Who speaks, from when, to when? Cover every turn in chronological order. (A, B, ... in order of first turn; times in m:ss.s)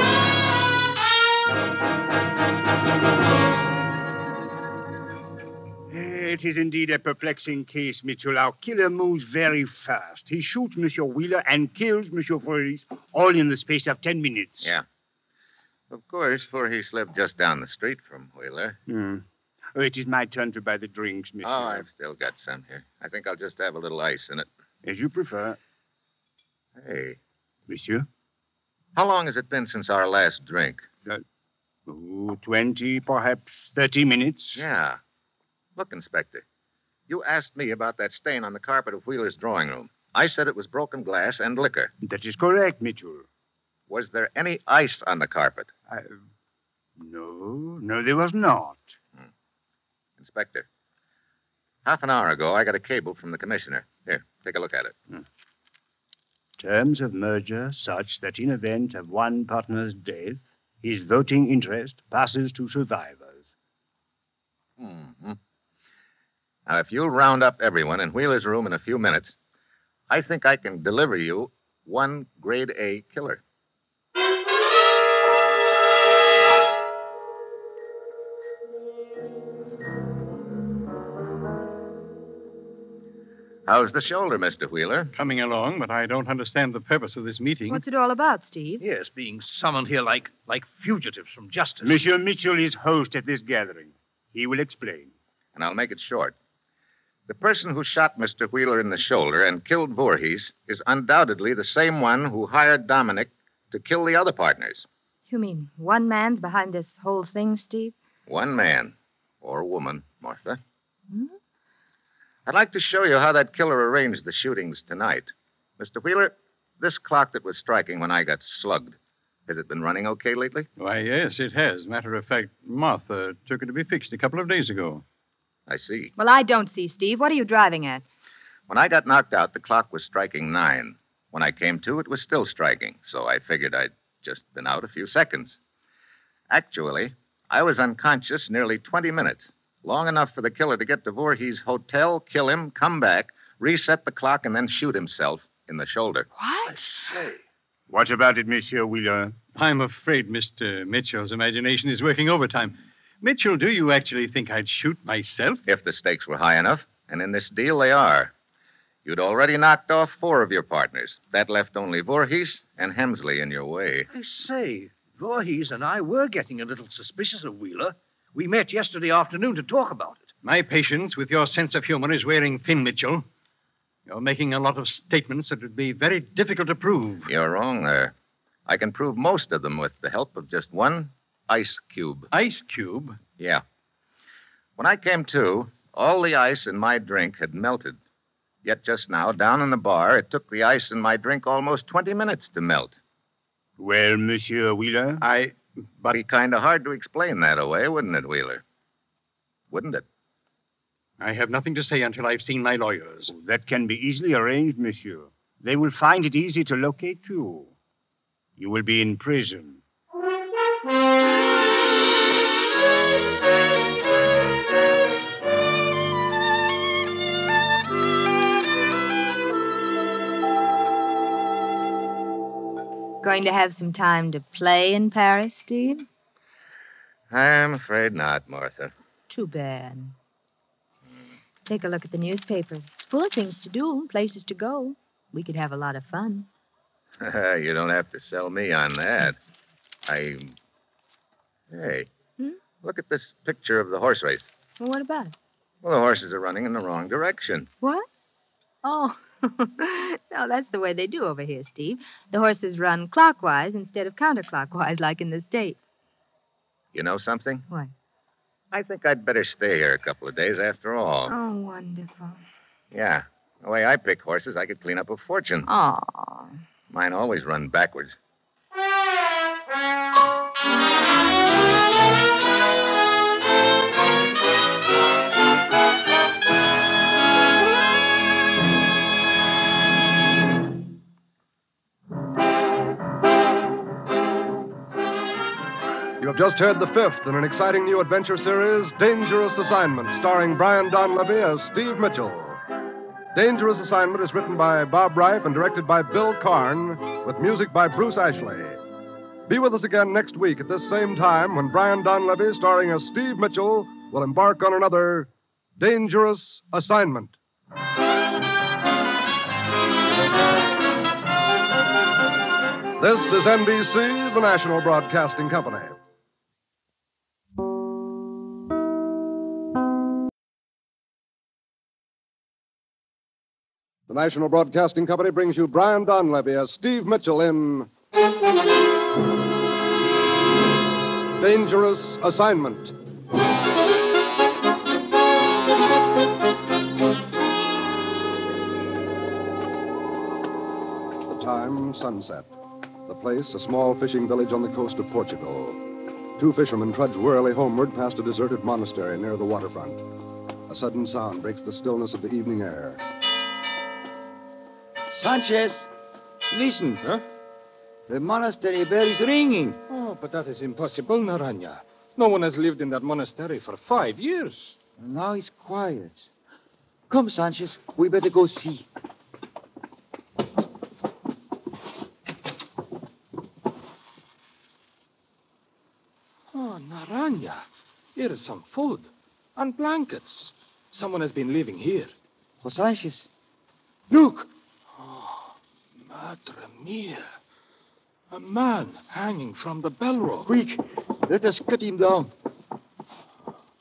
0:05.9-0:14.7 A
0:15.9-0:18.8 B
0:18.9-0:21.9 A
0:21.4-0:24.5 B
0:24.8-0:25.6 A
0:26.8-0:27.2 B
0:27.7-0:28.1 A
0:29.0-0:30.9 B
0:31.9-0:34.6 A
0:34.6-0:35.0 B
0:35.8-0:36.4 B
0:37.1-0:41.9 B
0:42.0-0:43.3 A
0:43.9-0:45.7 B
0:45.9-0:46.2 A
0:47.0-0:48.9 A
0:50.2-0:50.7 B
0:51.8-0:55.0 B
0:56.6-1:03.5 A
1:04.8-1:05.4 B
1:06.7-1:09.3 B
1:10.1-1:13.4 B
1:23.7-1:25.1 B
1:25.2-1:27.8 C
1:27.7-1:28.8 D
1:28.8-1:32.0 E
1:31.8-1:35.1 A
1:35.6-1:36.4 B
1:37.3-1:44.9 B
1:45.3-1:48.0 D
1:48.3-1:50.6 B
1:52.5-2:00.7 B
2:00.8-2:05.0 C
2:05.7-2:06.1 B
2:06.2-2:08.0 D
2:08.7-2:15.6 B
2:16.5-2:26.3 B
2:26.4-2:26.7 D
2:26.7-2:27.4 E
2:27.9-2:29.4 A
2:29.6-2:35.6 C
2:35.7-2:38.3 B
2:39.0-2:44.1 B
2:44.1-2:50.3 E
2:50.4-2:53.2 C
2:54.1-2:57.3 C
2:57.3-2:58.1 B
2:58.7-3:02.3 B
3:02.3-3:03.2 C
3:04.8-3:08.0 B
3:08.6-3:13.0 B
3:13.8-3:15.2 A
3:15.2-3:16.2 C
3:16.1-3:18.6 B
3:19.7-3:20.0 B
3:21.2-3:23.3 C
3:23.3-3:27.7 A
3:28.6-3:29.8 A
3:43.2-3:46.0 D
3:47.3-3:48.9 B
3:49.3-3:50.2 D
3:51.7-3:56.5 D
3:57.2-3:59.4 B
4:00.1-4:00.6 B
4:01.7-4:02.1 B
4:02.8-4:04.5 B
4:04.8-4:05.3 D
4:05.8-4:07.7 B
4:07.8-4:08.1 D
4:08.8-4:15.8 D
4:16.9-4:17.6 B
4:18.7-4:21.3 B
4:21.3-4:22.4 D
4:22.9-4:25.7 B
4:25.7-4:26.6 D
4:26.9-4:28.2 B
4:46.2-4:52.6 F
4:53.3-4:58.8 F
4:59.5-5:07.4 F
5:13.0-5:16.0 F
5:24.1-5:27.9 F
5:31.4-5:32.9 F
5:41.3-5:42.5 F
5:43.1-5:45.8 F
5:46.4-5:50.0 F
5:50.7-5:53.0 F
5:55.1-5:55.8 G
5:56.5-5:57.2 H
5:58.1-5:59.7 G
5:59.5-6:04.8 H
6:05.0-6:06.3 G
6:07.1-6:08.9 G
6:16.5-6:17.6 H
6:18.2-6:22.1 H
6:22.6-6:23.3 G
6:24.1-6:27.3 H
6:28.3-6:30.5 H
6:30.5-6:32.3 G